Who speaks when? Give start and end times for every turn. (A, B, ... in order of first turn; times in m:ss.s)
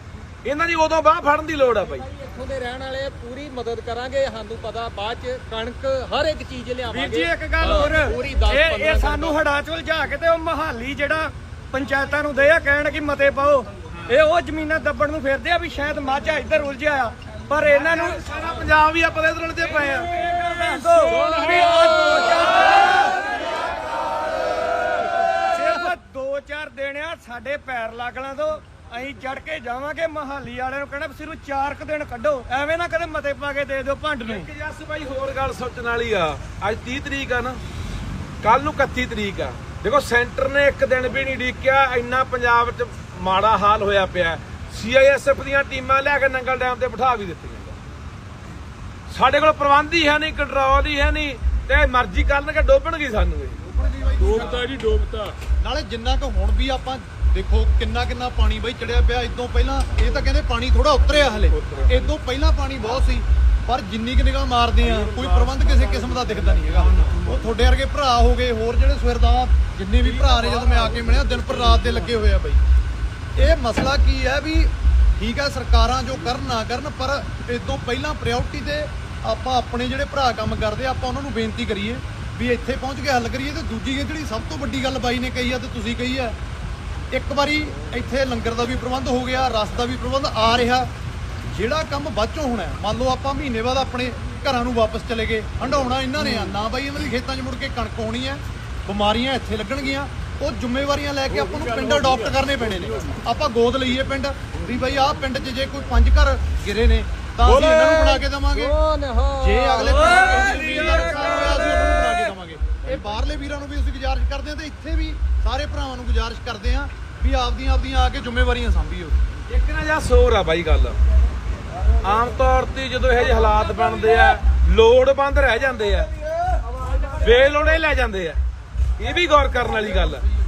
0:00.4-0:02.1 A
0:02.0-0:09.4 B
0:06.9-0:18.3 C
0:17.7-0:21.6 A
0:20.2-0:23.2 C
0:21.3-0:22.0 B
0:25.4-0:34.5 C
0:34.2-0:37.6 A
0:38.4-0:47.8 A
0:49.1-0:53.6 A
0:53.7-0:54.8 D
0:54.2-0:55.3 A
0:55.6-1:12.6 D
1:13.4-1:26.4 D
1:27.1-1:30.9 D
1:31.5-1:48.8 D
1:41.5-1:42.3 B
1:47.4-1:51.8 B
1:49.3-1:59.2 D
1:59.5-2:01.0 A
2:02.0-2:06.1 A
2:07.1-2:08.4 A
2:09.0-2:10.2 A